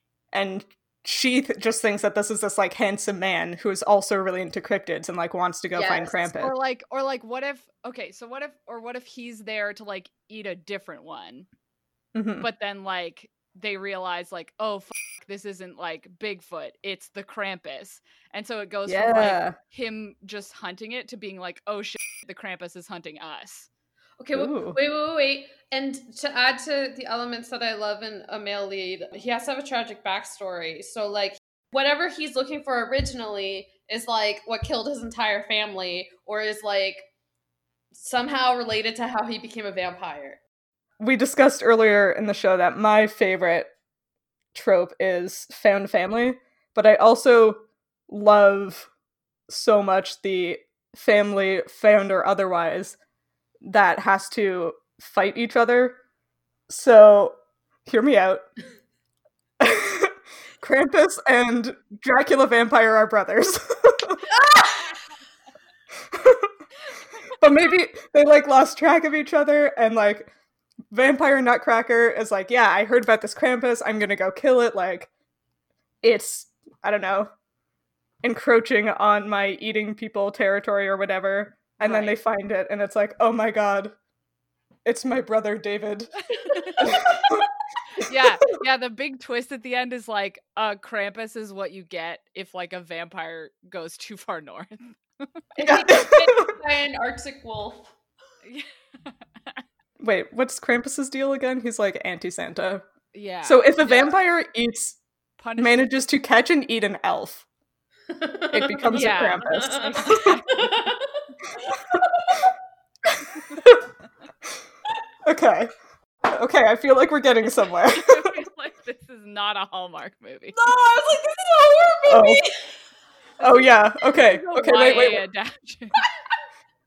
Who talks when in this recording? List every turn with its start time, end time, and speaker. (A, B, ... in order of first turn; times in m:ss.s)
0:00.3-0:06.5 A
0:05.8-0:06.2 B
0:06.4-0:11.5 C
0:12.2-0:12.5 A
0:12.4-0:23.7 C
0:18.9-0:19.6 A
0:24.2-0:37.1 B
0:24.3-0:24.8 A
0:37.9-0:40.4 B
0:41.0-0:43.7 A
0:44.5-0:48.9 A
0:49.5-0:53.0 A
0:53.6-0:56.0 A
0:56.7-0:58.5 A
0:59.6-1:04.2 A
1:04.3-1:05.0 B
1:06.1-1:06.5 A
1:07.4-1:10.3 A
1:10.9-1:15.1 A
1:16.0-1:17.3 A
1:18.2-1:24.0 A
1:21.8-1:22.2 C
1:24.8-1:26.1 A
1:26.4-1:26.9 C
1:26.5-1:27.4 B
1:26.8-1:27.4 A
1:28.0-1:35.3 C
1:35.6-1:37.9 B
1:35.6-1:36.5 A
1:38.4-1:39.6 C
1:40.0-1:42.8 A
1:43.1-1:44.2 C
1:43.4-1:45.0 A
1:45.4-1:45.9 C
1:45.6-1:47.4 A
1:48.1-1:52.5 B
1:48.5-1:50.2 A
1:48.9-1:50.9 C
1:53.1-1:53.8 A
1:55.2-1:55.7 A
1:56.3-1:58.4 A
1:57.9-2:00.6 C
2:00.5-2:02.7 B
2:02.1-2:02.4 A
2:03.4-2:05.2 A
2:03.4-2:06.0 C